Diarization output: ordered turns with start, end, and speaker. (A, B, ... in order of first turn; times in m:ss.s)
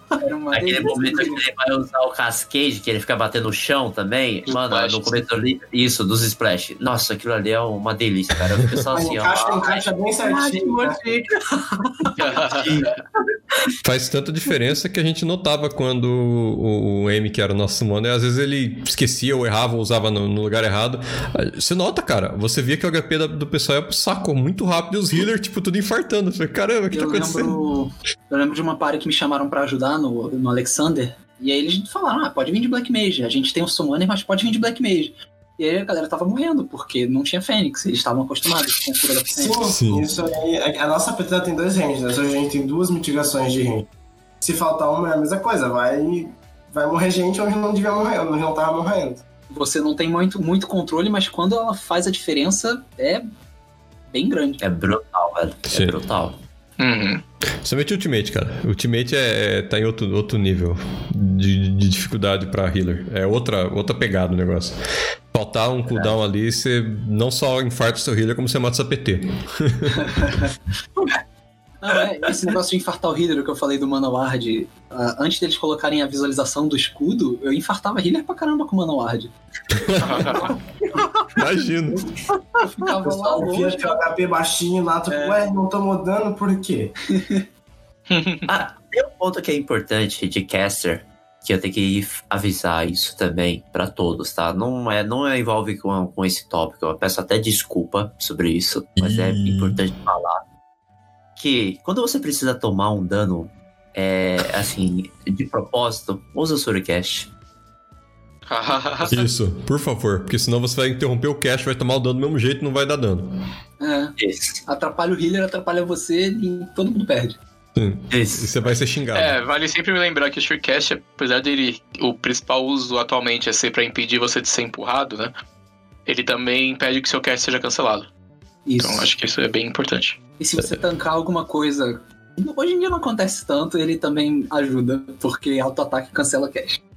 0:00.2-0:01.4 A
0:00.5-0:09.8 B
0:04.5-0:05.2 C
0:08.9-0:11.0 D
0:10.2-0:12.4 E
0:12.2-0:13.0 C
0:12.4-0:12.9 B
0:13.8-0:27.6 F
0:26.9-0:39.6 A
0:39.4-0:43.9 D
0:39.7-0:40.1 F
0:44.4-0:49.2 D
0:49.5-0:53.2 A
0:54.1-0:54.7 A
0:54.6-0:56.4 B
0:55.7-0:56.0 F
0:56.8-0:57.2 C
0:57.6-1:04.8 F
1:05.3-1:10.1 F
1:10.0-1:10.5 A
1:11.8-1:19.3 A
1:19.7-1:20.4 F
1:20.0-1:20.5 C
1:20.2-1:20.5 A
1:20.9-1:21.5 E
1:21.3-1:22.1 F
1:22.6-1:24.0 A
1:23.1-1:26.9 D
1:25.1-1:25.4 A
1:27.1-1:27.4 A
1:28.1-1:28.5 C
1:28.5-1:40.4 B
1:39.0-1:39.8 F
1:41.4-1:47.3 B
1:48.5-1:49.2 C
1:49.1-1:53.3 F
1:53.8-1:57.4 A
1:54.2-1:54.6 B
1:57.7-1:59.4 F
1:58.1-1:58.5 B
1:59.1-2:05.3 C
2:06.0-2:08.1 C
2:08.6-2:09.1 A
2:08.8-2:10.2 C
2:10.4-2:16.8 A